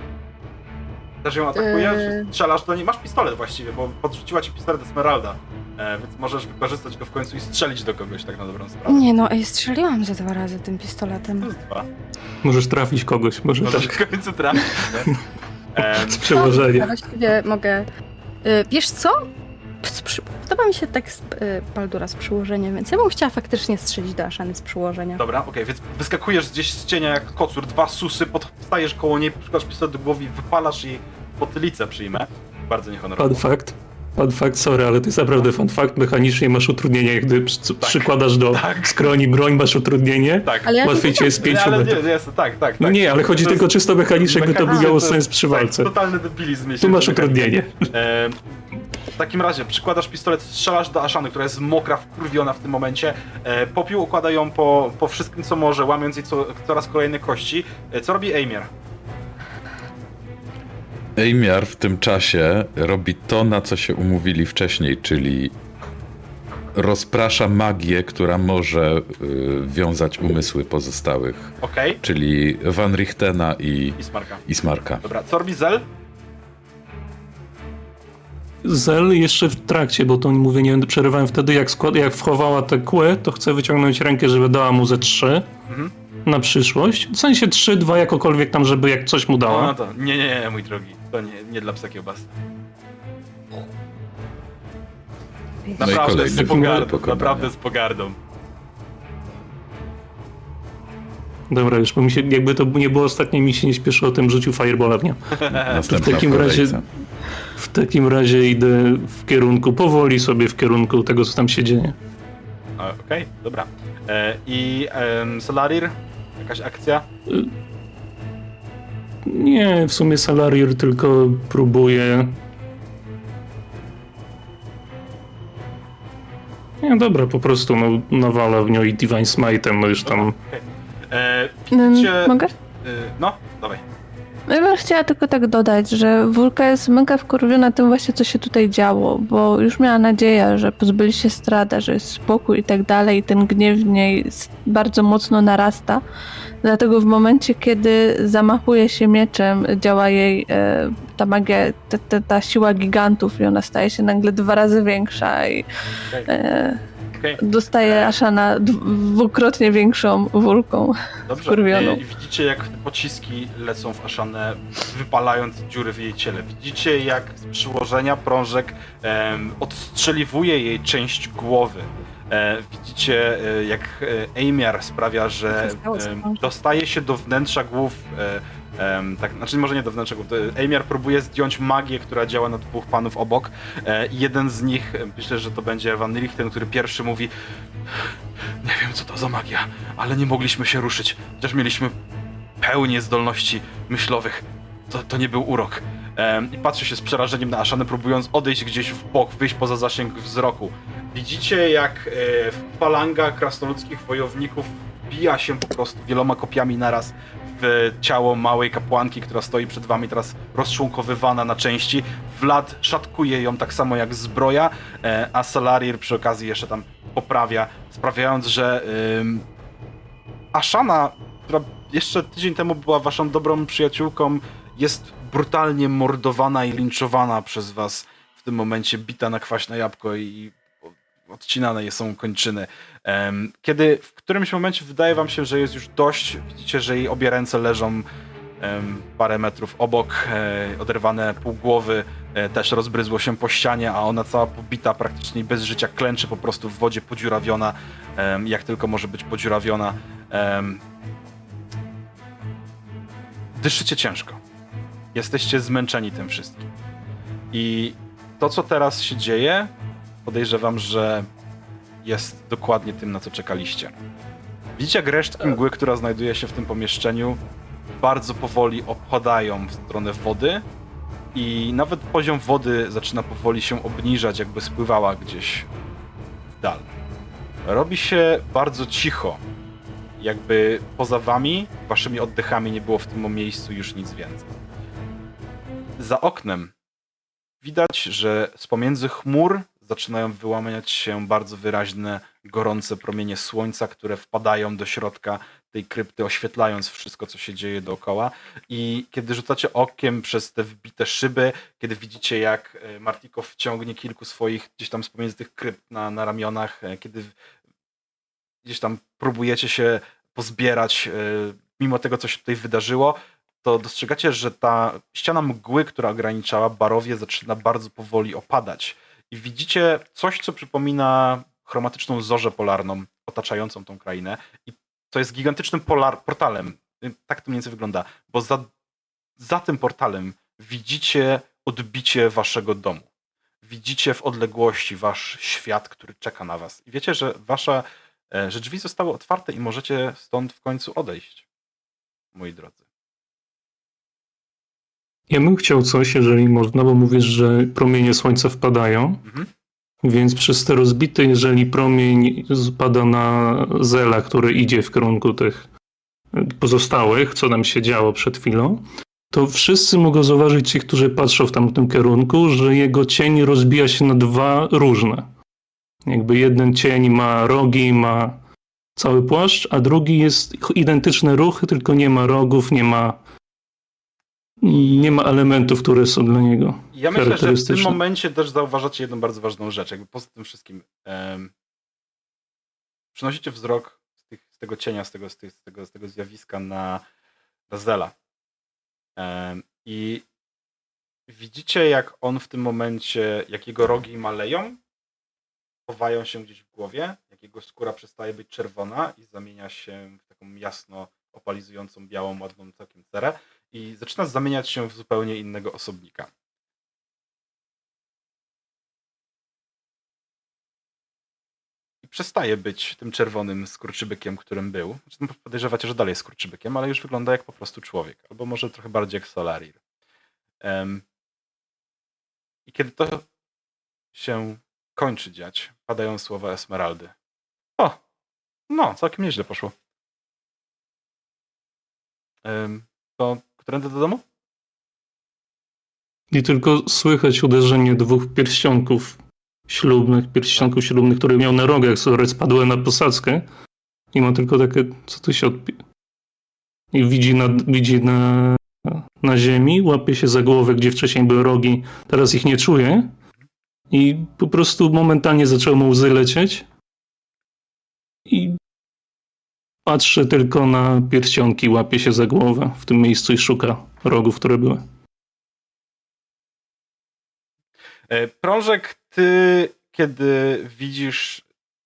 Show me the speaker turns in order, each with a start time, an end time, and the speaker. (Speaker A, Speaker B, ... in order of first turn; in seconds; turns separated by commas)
Speaker A: 1.2-9.1, Speaker B: 1.6-2.3, Speaker B: 8.9-11.5, Speaker A: 11.4-11.9, Speaker C: 12.4-14.0, Speaker A: 13.6-15.1, Speaker A: 15.7-16.6, Speaker C: 15.9-16.9, Speaker B: 16.2-17.9, Speaker B: 18.4-19.3, Speaker B: 19.8-25.2, Speaker A: 25.2-33.4, Speaker C: 33.2-42.0, Speaker A: 37.8-39.1, Speaker A: 40.4-40.8, Speaker B: 40.7-41.5, Speaker A: 41.4-43.7, Speaker C: 42.8-45.9, Speaker A: 44.2-48.4, Speaker B: 44.7-44.9, Speaker C: 46.8-47.9, Speaker A: 49.2-58.7, Speaker D: 61.2-65.5, Speaker D: 66.7-75.0, Speaker A: 71.6-72.0, Speaker A: 74.0-74.4, Speaker A: 75.0-75.9, Speaker C: 78.6-85.5, Speaker C: 86.3-89.7, Speaker A: 89.5-92.3, Speaker B: 95.7-96.3, Speaker A: 95.8-98.2, Speaker D: 95.8-97.5, Speaker C: 96.4-96.9, Speaker C: 101.5-106.8, Speaker A: 105.4-105.8, Speaker D: 105.5-106.8, Speaker C: 107.6-112.0, Speaker A: 112.8-117.1, Speaker C: 119.2-122.4, Speaker C: 126.8-130.4, Speaker A: 130.0-133.8, Speaker E: 131.7-132.5, Speaker E: 134.5-146.0, Speaker E: 146.6-155.7, Speaker E: 156.3-156.8, Speaker A: 157.2-158.2, Speaker E: 157.4-160.9, Speaker A: 161.3-187.3, Speaker E: 161.5-162.0, Speaker B: 175.5-176.5, Speaker A: 188.6-191.9, Speaker A: 192.6-219.4, Speaker A: 220.5-230.6, Speaker A: 231.3-238.1, Speaker A: 238.6-250.8, Speaker A: 253.6-254.4, Speaker A: 255.1-256.7, Speaker A: 257.5-259.7, Speaker A: 260.2-261.3, Speaker A: 262.0-264.0, Speaker A: 264.8-267.4, Speaker A: 268.0-270.6, Speaker A: 271.3-275.7, Speaker A: 276.6-276.9, Speaker A: 277.7-279.4, Speaker A: 280.2-284.5, Speaker A: 286.0-286.7, Speaker A: 287.6-307.3, Speaker A: 308.6-328.7, Speaker A: 329.4-333.1, Speaker A: 333.6-341.4, Speaker A: 342.3-342.8, Speaker C: 345.3-349.2, Speaker C: 350.0-355.7, Speaker C: 356.3-365.3, Speaker C: 366.1-368.4, Speaker C: 369.0-373.2, Speaker C: 374.6-378.0, Speaker A: 374.6-375.2, Speaker A: 376.9-381.5, Speaker A: 383.1-387.0, Speaker A: 387.7-388.1, Speaker A: 389.2-390.2, Speaker A: 391.3-394.8, Speaker A: 395.9-406.3, Speaker A: 412.0-419.8, Speaker A: 420.6-421.0, Speaker A: 422.7-423.3, Speaker A: 424.1-427.1, Speaker A: 428.7-429.7, Speaker A: 432.4-434.2, Speaker C: 436.3-443.4, Speaker C: 444.1-445.8, Speaker C: 446.9-453.1, Speaker C: 453.9-456.6, Speaker C: 458.3-458.6, Speaker C: 459.9-464.9, Speaker A: 468.1-471.4